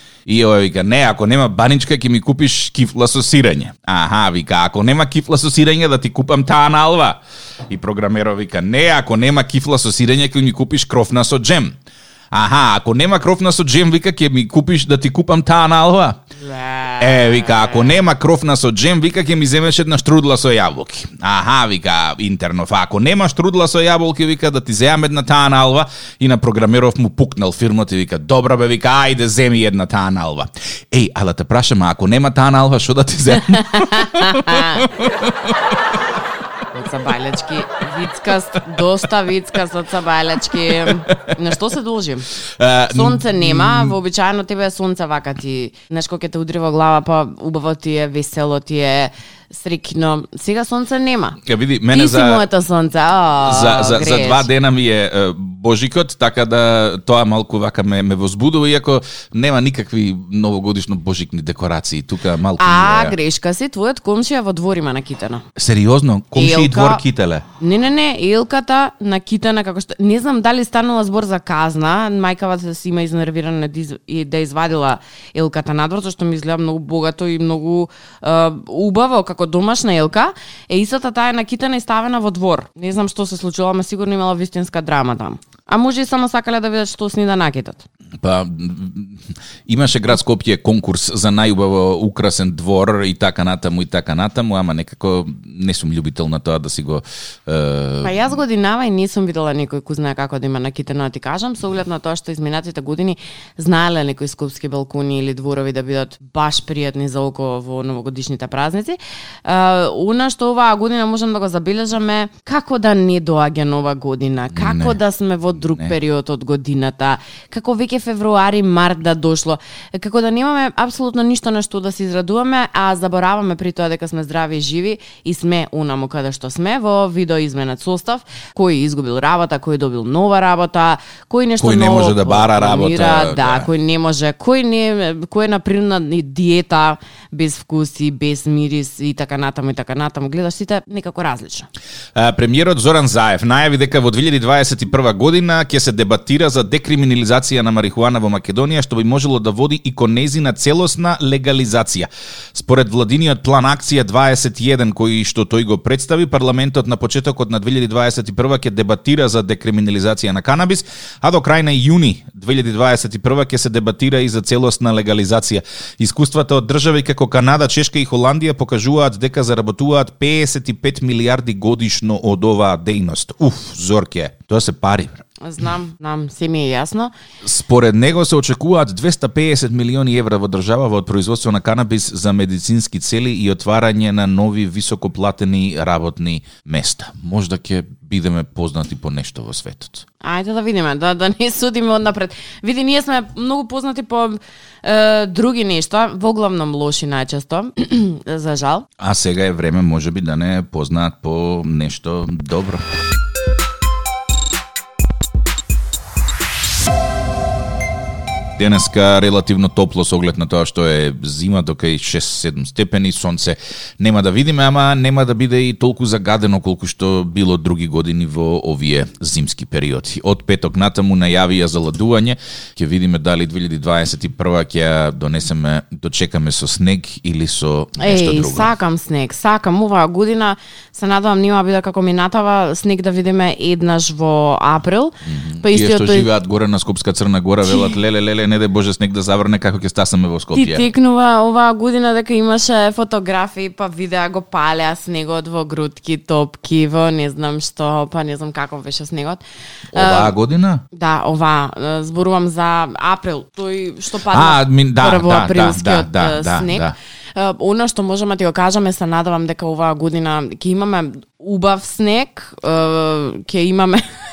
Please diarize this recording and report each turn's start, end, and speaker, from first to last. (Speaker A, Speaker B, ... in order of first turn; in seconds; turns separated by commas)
Speaker A: 0.2-11.8, Speaker A: 12.3-16.2, Speaker B: 16.4-18.0, Speaker A: 17.0-35.5, Speaker B: 33.4-34.9, Speaker B: 36.7-42.3, Speaker A: 40.7-41.3, Speaker A: 42.5-43.9, Speaker B: 42.9-51.4, Speaker A: 51.4-52.5, Speaker B: 51.9-54.5, Speaker A: 53.4-63.1, Speaker B: 62.6-65.4, Speaker A: 65.5-67.4, Speaker B: 66.3-67.0, Speaker B: 67.6-87.8, Speaker A: 88.2-98.3, Speaker B: 98.0-141.7, Speaker A: 114.5-115.0, Speaker A: 115.5-116.0, Speaker A: 131.6-133.7, Speaker A: 142.1-175.2, Speaker B: 175.4-177.1, Speaker A: 177.4-190.0, Speaker B: 190.2-198.8, Speaker A: 199.0-202.8, Speaker A: 208.6-228.7, Speaker B: 228.0-236.3, Speaker A: 235.2-240.9, Speaker B: 237.6-237.9, Speaker B: 240.5-249.4, Speaker A: 249.9-250.8, Speaker B: 249.9-250.3, Speaker B: 250.9-264.0, Speaker A: 254.3-256.9